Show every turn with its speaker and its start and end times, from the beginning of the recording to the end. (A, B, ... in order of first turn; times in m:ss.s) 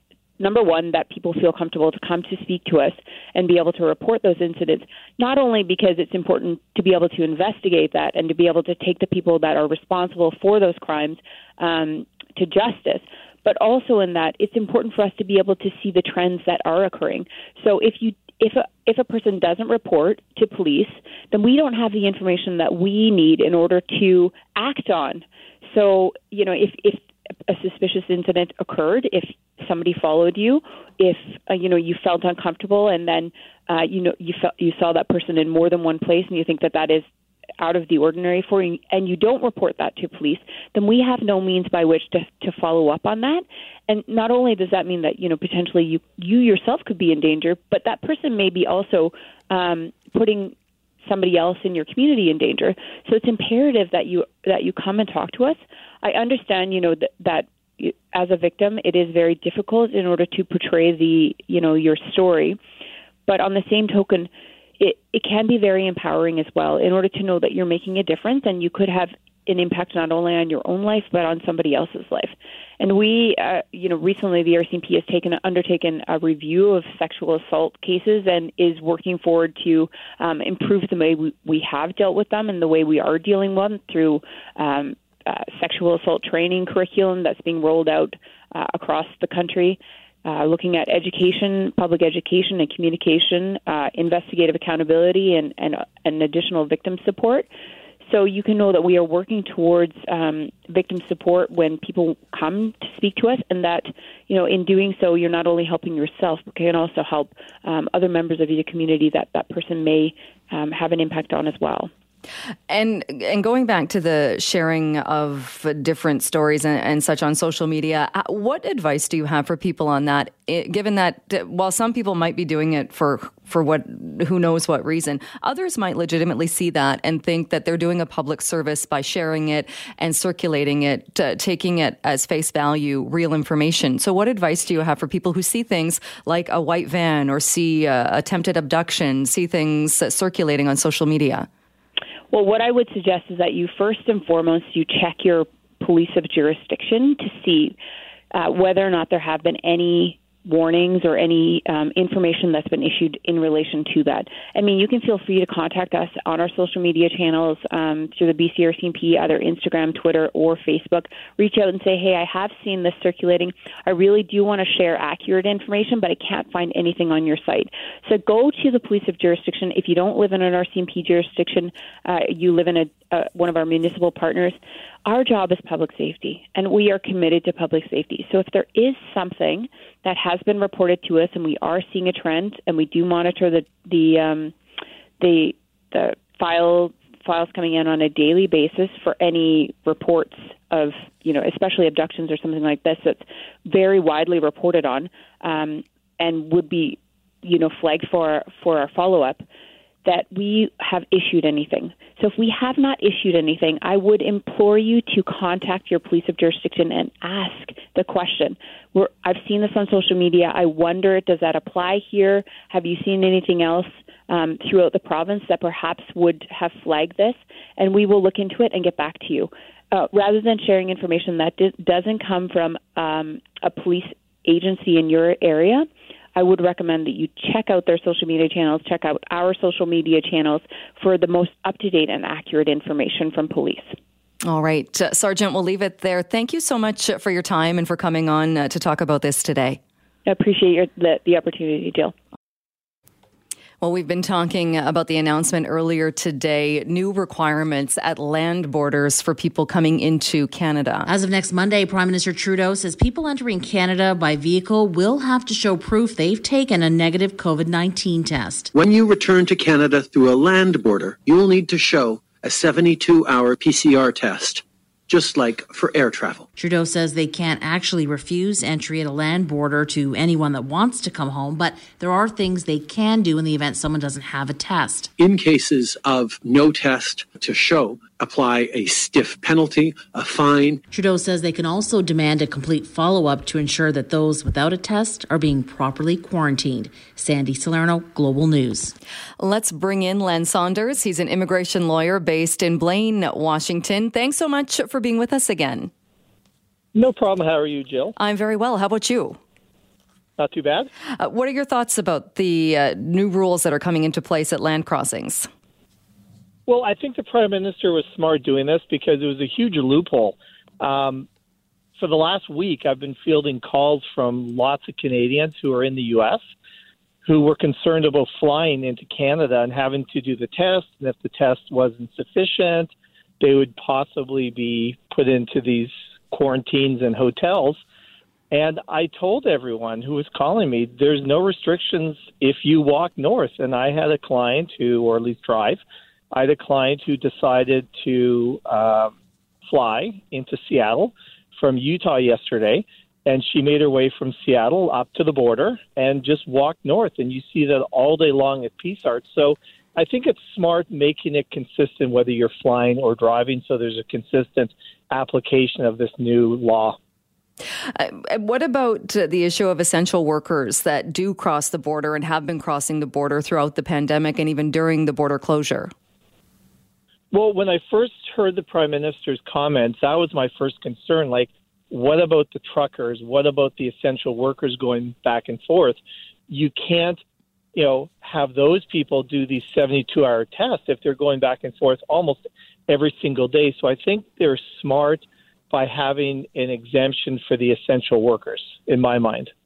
0:00.4-0:37.0 A
0:37.6-0:50.5 A
0:51.0-1:02.6 A
1:03.3-1:37.5 A
1:38.1-1:51.9 A
1:52.7-2:21.5 B
2:22.3-2:27.8 A
2:28.3-3:04.5 A
3:05.2-3:19.4 A
3:20.0-3:54.0 A
3:54.4-3:59.8 B
4:00.3-4:02.1 A
4:03.8-4:11.1 B
4:11.1-4:18.7 C
4:18.7-4:26.5 D
4:26.6-4:35.1 C
4:35.2-4:40.8 D
4:40.9-4:49.0 C
4:49.4-4:55.9 B
4:57.0-4:58.2 E
4:58.2-4:59.4 B
5:00.4-5:00.9 E
5:01.2-5:05.5 B
5:06.7-5:11.3 E
5:12.0-5:16.4 E
5:17.2-5:27.8 E
5:28.5-5:35.8 E
5:36.3-5:39.1 E
5:39.6-5:57.0 E
5:58.0-6:05.9 B
6:07.3-6:16.0 E
6:16.5-6:17.2 E
6:17.7-6:29.5 E